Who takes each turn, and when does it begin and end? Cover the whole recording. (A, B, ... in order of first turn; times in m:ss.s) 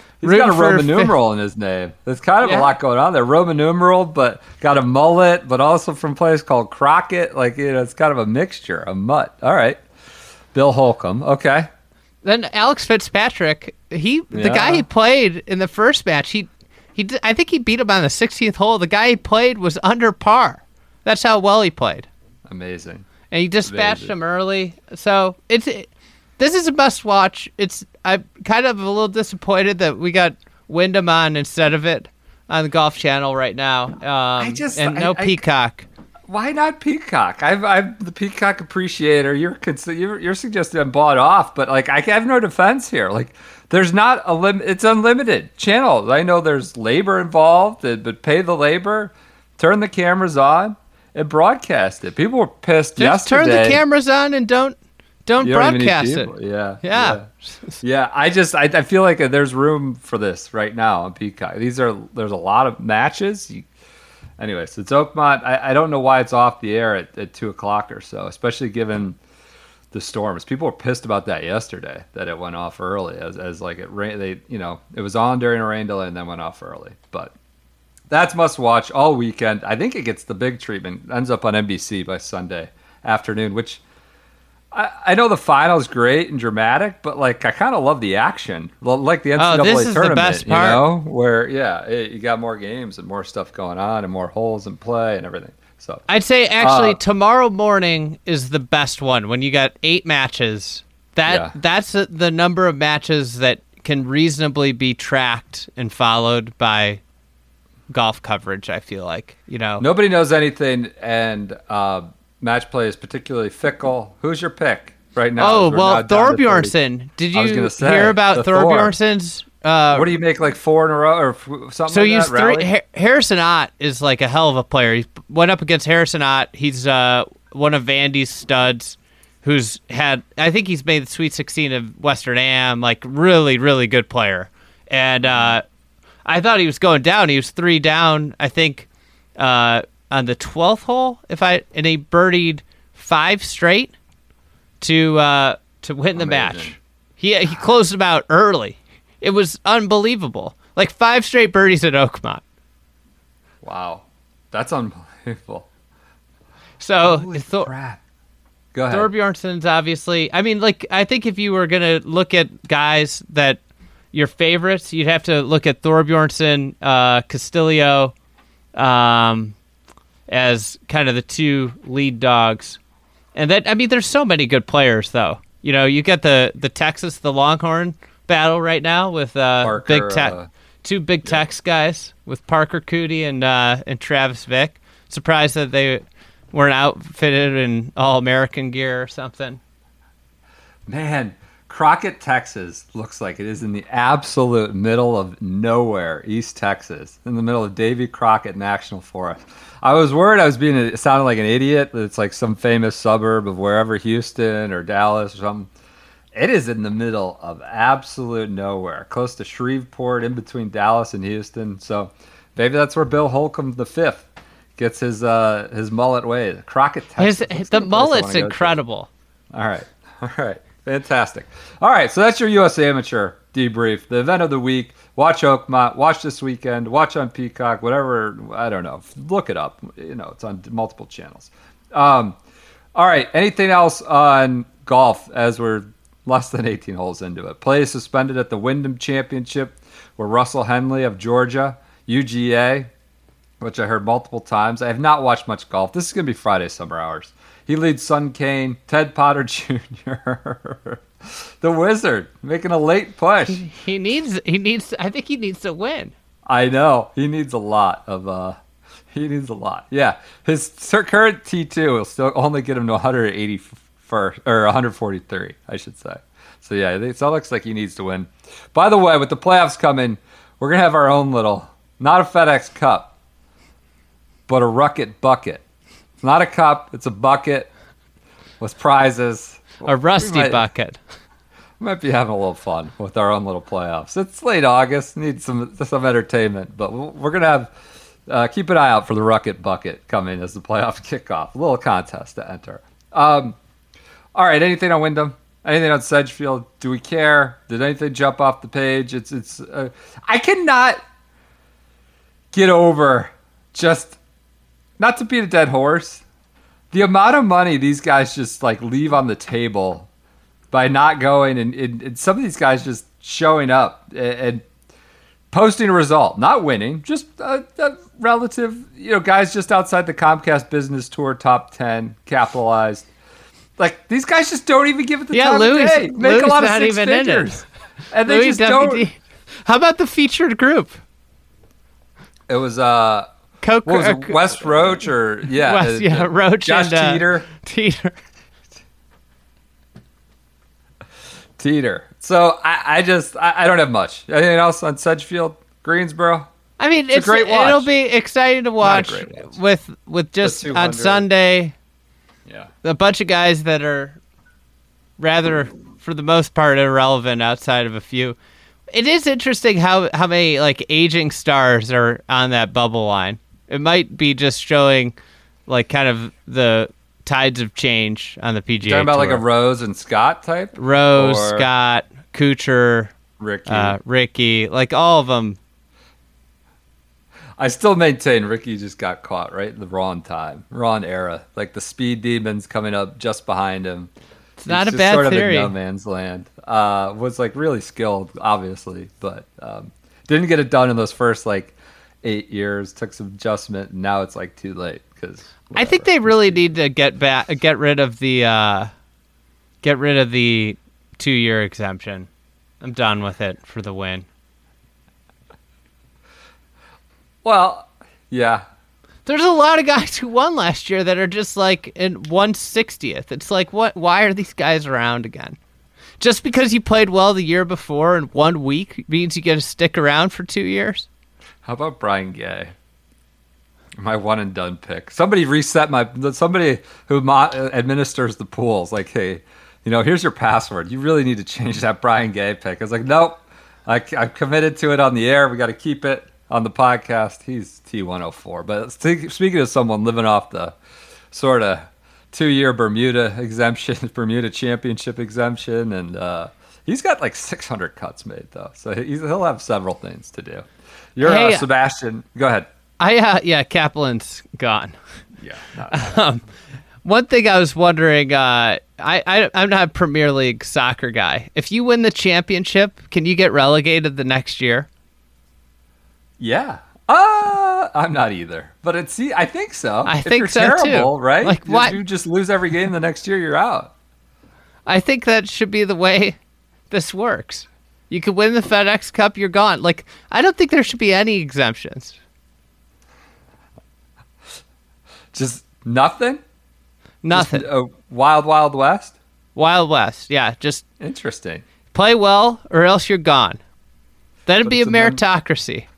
0:00.2-0:09.8 A
0:00.2-0:01.1 B
0:02.4-0:02.7 B
0:10.5-0:11.7 A
0:12.2-0:22.1 B
0:14.3-0:14.8 A
0:22.5-0:23.1 A
0:23.3-0:35.9 B
0:23.6-0:24.1 A
0:34.4-0:35.4 A
0:36.3-0:53.8 A
0:53.0-0:57.8 B
0:55.4-0:57.3 A
0:57.8-1:03.7 A
1:04.4-1:09.2 A
1:09.9-1:17.3 A
1:18.1-1:23.8 A
1:24.7-1:36.0 A
1:29.4-1:30.8 B
1:36.1-1:47.0 B
1:36.6-1:37.0 A
1:41.3-1:41.5 A
1:47.9-1:49.9 B
1:49.8-1:56.8 A
1:55.4-2:00.2 B
1:57.3-1:59.0 A
1:59.9-2:02.7 A
2:01.9-2:15.6 B
2:15.2-2:15.6 A
2:16.3-2:18.9 B
2:19.4-2:23.9 B
2:24.8-2:32.4 B
2:26.2-2:26.8 A
2:33.6-2:35.7 A
2:36.8-2:37.7 B
2:37.0-2:38.0 A
2:38.7-2:39.1 A
2:38.9-2:43.6 B
2:44.1-2:48.1 B
2:48.8-2:49.6 B
2:50.3-2:52.8 B
2:53.4-3:09.6 B
2:59.6-3:00.5 A
3:10.9-3:25.7 A
3:26.3-3:34.3 A
3:34.8-3:38.8 A
3:37.2-3:39.1 B
3:39.5-3:52.4 A
3:53.0-4:02.9 A
4:03.6-4:13.6 A
4:13.5-4:16.1 B
4:16.5-4:18.6 A
4:19.1-4:33.1 A
4:34.5-4:35.6 A
4:36.2-4:37.7 A
4:38.6-4:40.6 A
4:39.8-4:41.0 B
4:41.8-4:47.7 A
4:48.3-4:53.6 A
4:54.4-5:01.0 A
5:02.5-5:04.2 A
5:05.0-5:06.2 A
5:06.9-5:10.1 A
5:10.7-5:14.6 A
5:15.5-5:23.1 A
5:23.8-5:29.1 A
5:25.3-5:27.6 B
5:28.3-5:31.0 B
5:32.5-5:33.3 A
5:33.6-5:34.8 B
5:33.8-5:37.5 A
5:35.5-5:38.2 B
5:41.6-5:46.5 A
5:46.8-5:51.8 B
5:47.1-5:47.9 A
5:48.8-5:49.5 A
5:50.4-5:51.2 A
5:52.8-5:54.2 B
5:55.2-5:58.4 B
5:58.9-6:05.2 B
6:05.7-6:09.4 B
6:08.8-6:11.7 A
6:10.8-6:13.2 B
6:13.4-6:14.0 A
6:13.7-6:15.6 B
6:17.6-6:24.1 A
6:24.6-6:25.7 B
6:24.7-6:36.7 A
6:35.8-6:38.9 B
6:39.8-6:42.3 B
6:42.8-6:44.3 B
6:47.4-6:48.6 A
6:49.3-6:55.6 B
6:56.2-7:01.1 B
7:01.6-7:02.7 A
7:04.0-7:20.8 A
7:21.3-7:32.7 A
7:31.2-7:31.7 B
7:33.0-7:35.0 B
7:35.4-7:36.2 A
7:35.9-7:36.4 B
7:37.0-7:44.9 B
7:46.4-7:53.9 A
7:50.0-7:52.0 B
7:54.9-7:56.4 B
7:56.9-8:02.2 B
8:05.3-8:06.4 A
8:07.2-8:07.7 B
8:07.3-8:09.2 A
8:09.6-8:10.8 B
8:11.0-8:11.6 A
8:11.9-8:13.6 B
8:14.5-8:15.9 B
8:14.6-8:15.2 A